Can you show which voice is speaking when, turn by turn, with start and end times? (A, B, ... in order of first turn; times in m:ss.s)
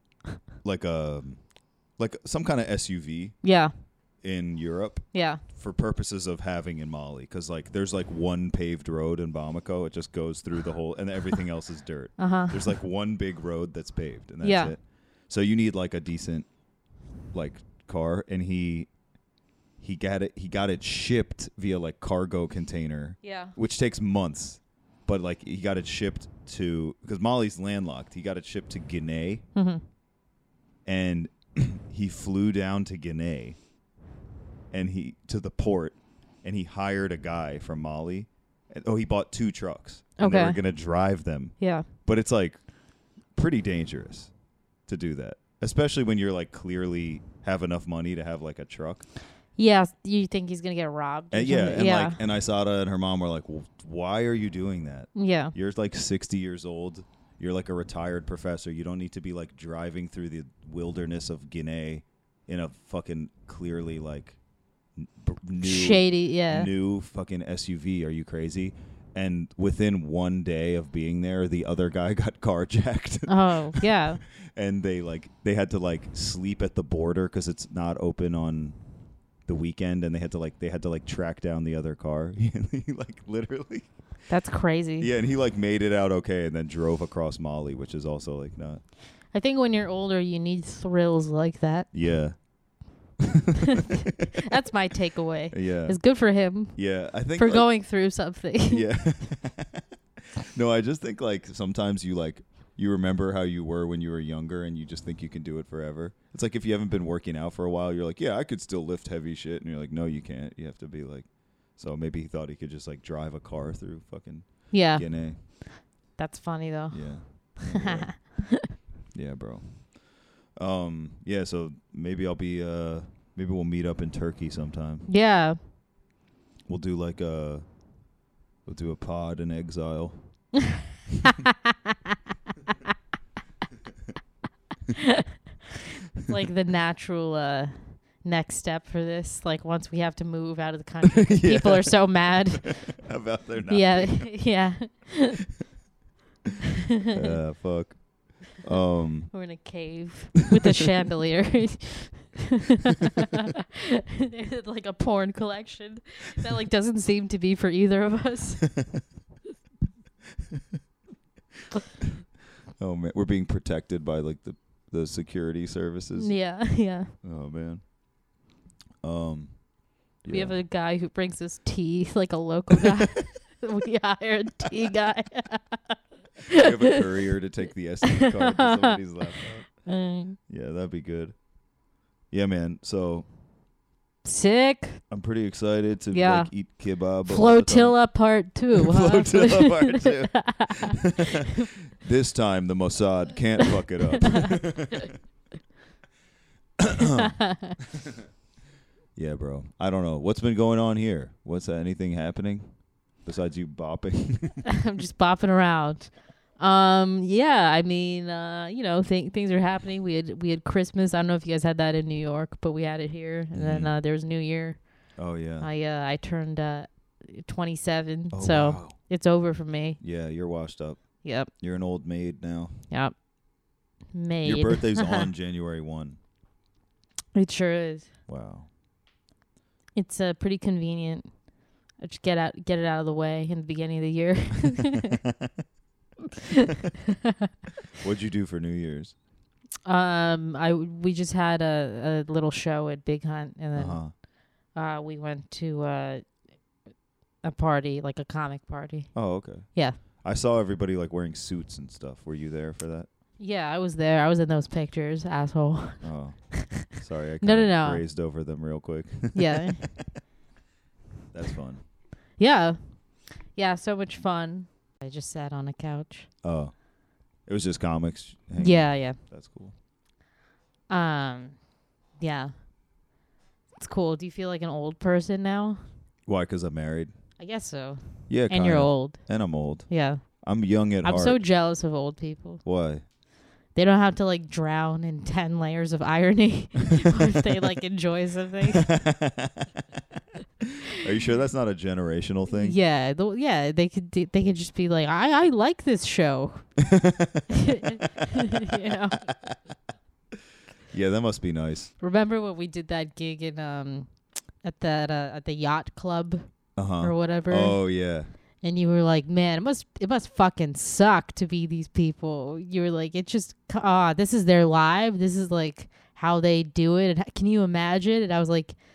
0:00.6-0:03.4 A
0:03.4-0:03.7 B
0:04.2-0:16.5 A
0:05.1-0:05.4 B
0:12.2-0:12.6 B
0:14.4-0:14.7 B
0:17.3-0:18.9 A
0:19.8-0:29.4 A
0:23.2-0:23.5 B
0:29.5-0:29.8 B
0:30.8-0:33.6 A
0:34.7-0:42.7 A
0:40.2-0:40.6 B
0:41.6-0:41.8 B
0:43.3-0:44.3 A
0:44.8-0:49.1 A
0:49.6-0:52.2 B
0:51.3-1:04.4 A
0:55.1-0:55.5 B
1:05.0-1:18.8 A
1:05.6-1:06.7 B
1:13.3-1:14.2 B
1:19.4-1:23.9 A
1:24.3-1:25.1 B
1:25.0-1:28.8 A
1:29.3-1:31.9 B
1:31.9-1:32.4 A
1:33.8-1:38.9 B
1:35.5-1:36.2 A
1:36.7-1:37.8 A
1:38.7-1:55.4 A
1:54.7-1:58.6 B
1:56.9-1:58.4 A
1:59.1-2:00.0 A
2:00.5-2:05.1 A
2:05.1-2:05.6 B
2:06.7-2:07.6 A
2:08.6-2:10.4 A
2:16.2-2:23.0 B
2:21.0-2:22.4 A
2:23.0-2:24.5 A
2:23.7-2:25.5 B
2:27.0-2:27.3 B
2:27.1-2:29.5 A
2:29.3-2:33.5 B
2:34.2-2:38.8 B
2:42.8-2:46.4 A
2:46.1-2:47.1 B
2:47.2-2:47.8 A
2:49.0-2:49.7 A
2:50.2-2:50.6 A
2:50.3-2:57.0 B
2:56.5-3:01.4 A
2:58.1-2:59.0 B
2:59.8-3:00.4 B
3:02.3-3:03.3 A
3:04.2-3:05.0 B
3:05.1-3:08.1 A
3:06.1-3:06.5 B
3:07.2-3:11.0 B
3:08.7-3:11.1 A
3:11.9-3:15.1 A
3:16.8-3:17.3 A
3:17.2-3:17.7 B
3:19.1-3:24.6 A
3:24.7-3:40.0 B
3:33.5-3:33.9 A
3:35.2-3:35.7 A
3:38.3-3:39.0 A
3:40.0-3:42.8 A
3:41.2-3:41.5 B
3:42.9-3:43.2 B
3:44.1-3:45.3 B
3:44.4-3:46.2 A
3:47.3-3:48.1 B
3:48.3-3:48.7 A
3:50.0-3:55.2 B
3:58.0-3:59.2 A
3:59.8-4:06.2 B
4:03.7-4:04.1 A
4:07.4-4:10.0 B
4:09.1-4:13.1 A
4:13.4-4:16.1 B
4:16.0-4:19.9 A
4:17.4-4:18.0 B
4:19.3-4:19.9 B
4:21.3-4:21.8 A
4:22.4-4:26.3 B
4:26.4-4:26.8 A
4:27.4-4:29.7 A
4:28.6-4:29.2 B
4:30.9-4:31.6 B
4:32.2-4:32.5 B
4:33.7-4:35.8 B
4:36.2-4:37.1 A
4:37.4-4:40.4 B
4:38.3-4:41.4 A
4:41.0-4:42.6 B
4:42.6-4:43.0 A
4:43.7-4:48.9 B
4:48.8-4:50.0 A
4:50.9-4:52.8 A
4:52.5-4:56.7 B
4:56.9-4:57.8 A
4:57.5-4:59.2 B
4:59.3-4:59.6 A
5:00.9-5:01.9 A
5:02.0-5:07.8 B
5:06.8-5:08.3 A
5:08.6-5:18.8 B